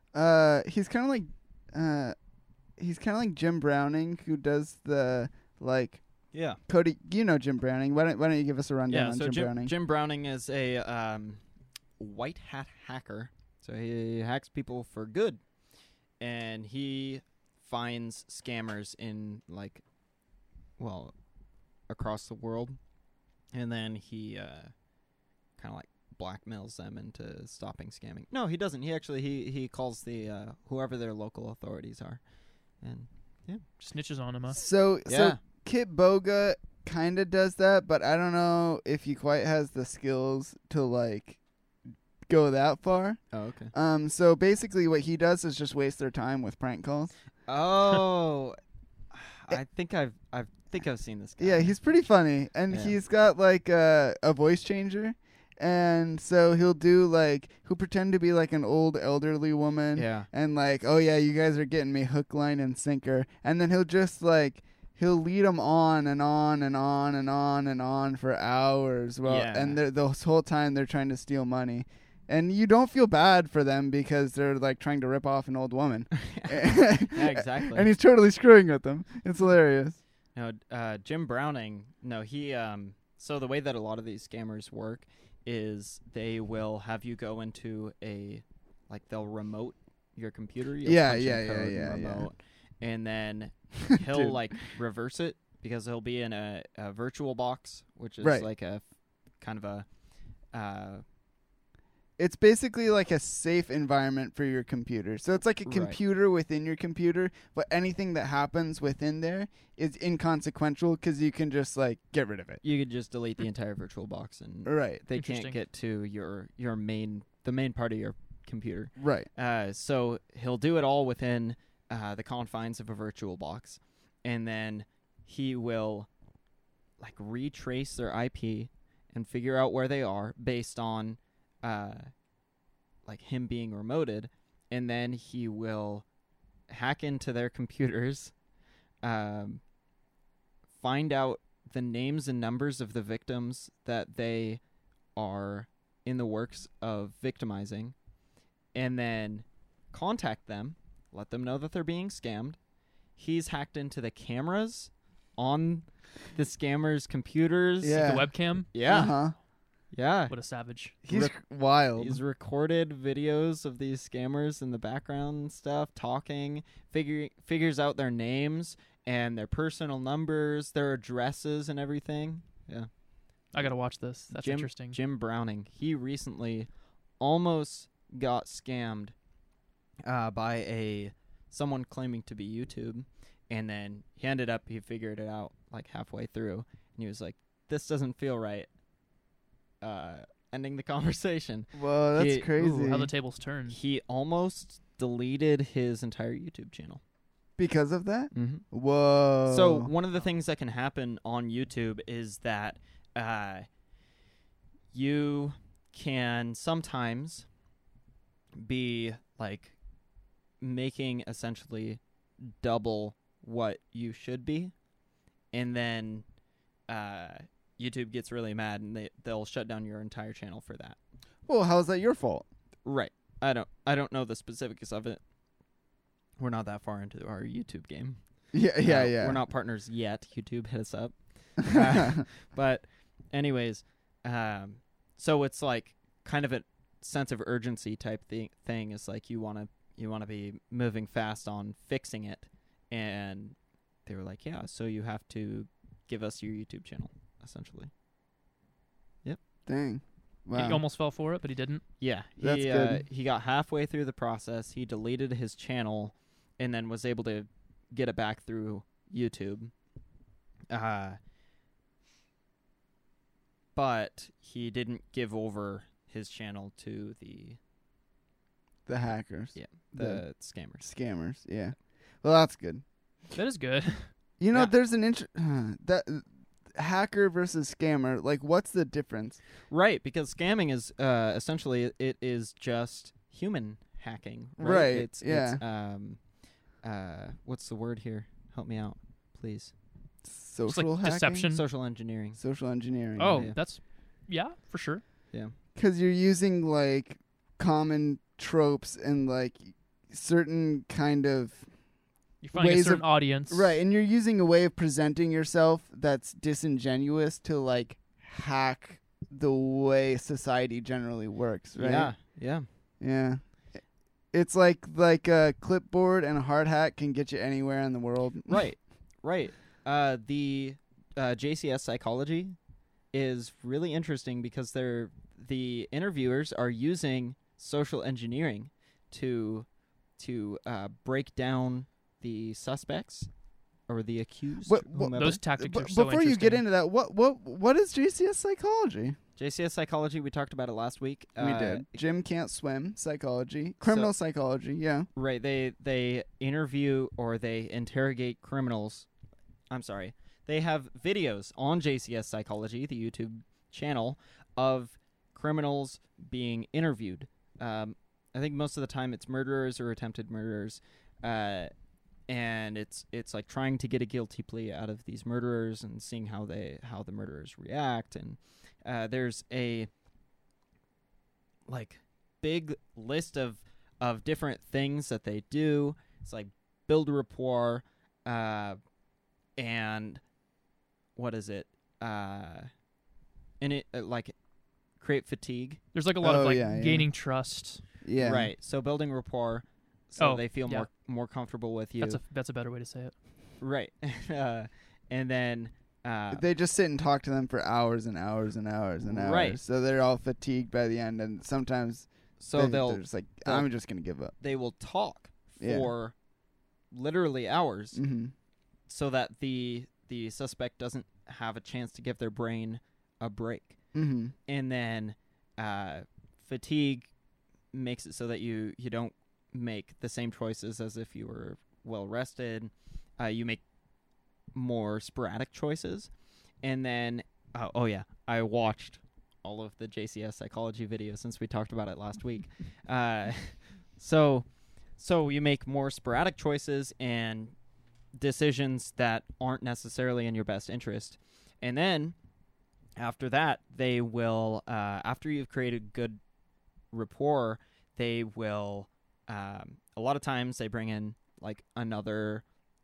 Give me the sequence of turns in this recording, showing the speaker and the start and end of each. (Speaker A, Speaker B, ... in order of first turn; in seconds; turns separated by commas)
Speaker A: 0.1-2.1, Speaker A: 2.8-6.0, Speaker B: 6.3-6.6, Speaker A: 6.7-9.7, Speaker B: 8.9-11.4, Speaker B: 12.0-15.4, Speaker B: 16.2-19.8, Speaker B: 20.8-21.1, Speaker B: 21.9-22.8, Speaker B: 23.5-24.7, Speaker B: 25.6-32.2, Speaker B: 32.8-33.6, Speaker C: 33.8-34.6, Speaker A: 34.5-41.4, Speaker B: 35.0-35.4, Speaker A: 42.3-43.2, Speaker B: 43.3-43.7, Speaker A: 43.7-47.1, Speaker B: 47.5-48.6, Speaker B: 49.1-51.8, Speaker A: 51.4-80.0, Speaker B: 52.7-53.0, Speaker B: 59.9-60.3, Speaker B: 69.2-69.8, Speaker B: 76.1-77.9, Speaker B: 80.3-98.8, Speaker A: 90.8-92.3, Speaker A: 93.8-94.4, Speaker A: 98.2-98.5, Speaker B: 99.4-99.9, Speaker B: 100.5-101.0, Speaker A: 102.2-112.6, Speaker B: 105.7-106.0, Speaker B: 112.6-126.1, Speaker A: 114.7-115.0, Speaker C: 115.1-115.6, Speaker A: 119.0-119.3, Speaker B: 127.0-132.1, Speaker B: 133.1-136.1, Speaker B: 136.7-138.3, Speaker B: 139.0-139.6, Speaker B: 140.8-144.6, Speaker B: 145.2-147.9, Speaker B: 148.7-152.6, Speaker B: 153.2-158.1, Speaker A: 157.8-158.3, Speaker C: 157.9-158.7, Speaker B: 158.7-159.1, Speaker A: 158.8-159.3, Speaker B: 159.9-160.3, Speaker C: 160.3-160.9, Speaker A: 161.0-162.2, Speaker B: 161.1-161.3, Speaker B: 162.0-172.9, Speaker C: 173.5-175.0, Speaker B: 174.3-176.7, Speaker B: 177.2-179.1, Speaker B: 180.0-188.7, Speaker B: 189.8-192.5, Speaker A: 191.7-193.1, Speaker C: 192.6-193.8, Speaker B: 193.7-197.0, Speaker A: 197.6-199.9, Speaker B: 198.3-198.6, Speaker B: 199.4-203.7, Speaker B: 204.9-207.4, Speaker B: 208.6-209.8, Speaker B: 210.6-214.7, Speaker B: 215.5-216.2, Speaker B: 216.9-221.0, Speaker A: 221.5-222.5, Speaker B: 222.8-225.2, Speaker B: 226.4-228.2, Speaker A: 228.5-229.4, Speaker B: 228.8-247.9, Speaker A: 231.7-232.2, Speaker A: 249.7-250.8, Speaker C: 250.5-251.8, Speaker B: 252.0-259.7, Speaker A: 252.4-253.0, Speaker B: 260.7-261.2, Speaker B: 263.8-267.6, Speaker A: 268.9-270.2, Speaker B: 269.5-270.9, Speaker A: 270.8-272.8, Speaker C: 273.3-274.1, Speaker A: 274.4-279.4, Speaker B: 279.7-286.2, Speaker A: 284.6-285.6, Speaker B: 286.8-289.7, Speaker A: 290.2-291.5, Speaker C: 290.7-291.6, Speaker B: 291.5-292.4, Speaker A: 292.4-293.5, Speaker C: 293.2-295.0, Speaker A: 295.8-301.6, Speaker C: 302.4-303.8, Speaker A: 302.5-312.1, Speaker B: 311.8-312.6, Speaker A: 313.0-313.4, Speaker A: 314.3-318.6, Speaker B: 318.5-322.6, Speaker B: 323.1-329.7, Speaker B: 330.2-333.3, Speaker B: 333.9-335.4, Speaker A: 334.6-339.2, Speaker C: 335.1-336.6, Speaker B: 339.4-342.0, Speaker A: 341.4-345.1, Speaker B: 343.8-344.1, Speaker B: 345.1-349.1, Speaker B: 349.7-361.7, Speaker B: 362.3-369.9, Speaker B: 371.7-378.8, Speaker B: 379.6-380.2, Speaker B: 381.1-382.7, Speaker B: 383.6-384.3, Speaker B: 385.0-385.8, Speaker C: 385.9-387.8, Speaker A: 386.2-387.1, Speaker A: 388.0-388.5, Speaker B: 388.2-392.2, Speaker C: 390.2-390.9, Speaker C: 392.0-393.1, Speaker B: 393.6-396.4, Speaker A: 396.3-404.3, Speaker B: 399.0-399.6, Speaker B: 402.4-403.7, Speaker B: 404.4-406.1, Speaker A: 405.6-405.9, Speaker B: 406.9-408.0, Speaker A: 407.9-408.3, Speaker B: 408.9-413.8, Speaker A: 413.9-414.3, Speaker B: 414.5-417.1, Speaker B: 417.7-423.6, Speaker B: 424.5-426.1, Speaker B: 426.6-434.4, Speaker B: 435.0-437.5, Speaker B: 438.2-442.1, Speaker B: 443.0-446.2, Speaker B: 446.9-452.4